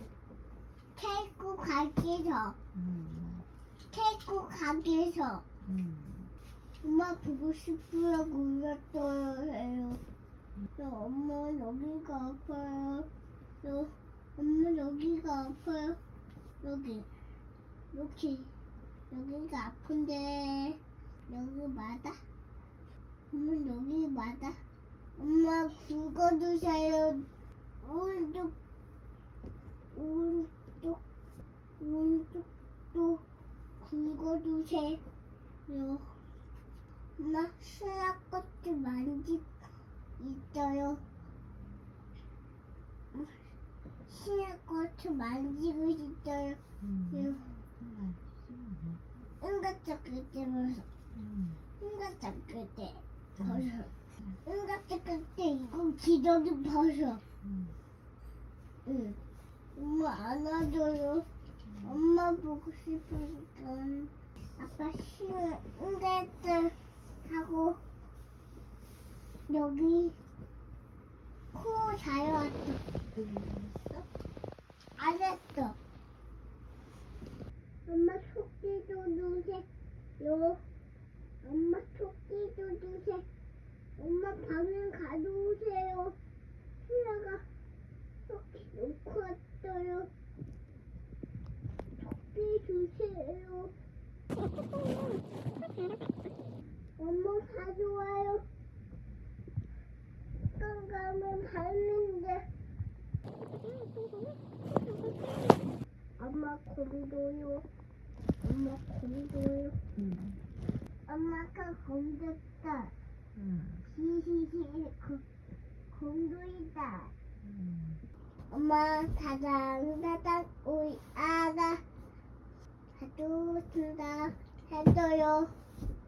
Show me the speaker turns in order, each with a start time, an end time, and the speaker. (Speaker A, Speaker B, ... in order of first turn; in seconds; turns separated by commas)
Speaker A: 0.9-2.5, Speaker B: 2.7-3.5, Speaker A: 3.9-5.4, Speaker B: 5.6-6.3, Speaker A: 6.8-10.0, Speaker A: 10.8-13.1, Speaker A: 13.6-16.0, Speaker A: 16.6-17.1, Speaker A: 17.9-18.5, Speaker A: 19.1-22.2, Speaker A: 23.3-24.6, Speaker A: 25.2-27.2, Speaker A: 27.8-28.5, Speaker A: 29.9-31.0, Speaker A: 31.8-33.2, Speaker A: 33.8-35.0, Speaker A: 35.7-36.2, Speaker A: 37.2-39.5, Speaker A: 40.2-41.0, Speaker A: 43.1-43.4, Speaker A: 44.1-46.6, Speaker B: 46.8-49.0, Speaker A: 47.1-47.4, Speaker A: 49.4-50.9, Speaker B: 51.1-51.6, Speaker A: 51.8-53.9, Speaker B: 53.4-53.6, Speaker A: 54.4-57.2, Speaker B: 57.4-57.8, Speaker A: 58.8-59.2, Speaker A: 59.7-61.3, Speaker A: 61.8-67.8, Speaker A: 69.5-70.2, Speaker A: 71.5-72.8, Speaker B: 73.0-74.1, Speaker A: 75.0-75.8, Speaker A: 77.9-79.7, Speaker A: 80.2-80.6, Speaker A: 81.4-83.2, Speaker A: 84.0-86.2, Speaker A: 86.8-87.4, Speaker A: 88.3-90.1, Speaker A: 92.0-93.7, Speaker A: 97.0-98.5, Speaker A: 100.5-102.5, Speaker A: 106.2-107.7, Speaker A: 108.4-109.8, Speaker B: 109.9-110.4, Speaker A: 111.1-112.9, Speaker B: 113.3-113.9, Speaker A: 113.9-115.2, Speaker A: 115.9-117.1, Speaker B: 117.4-118.0, Speaker A: 118.5-121.8, Speaker A: 122.9-125.5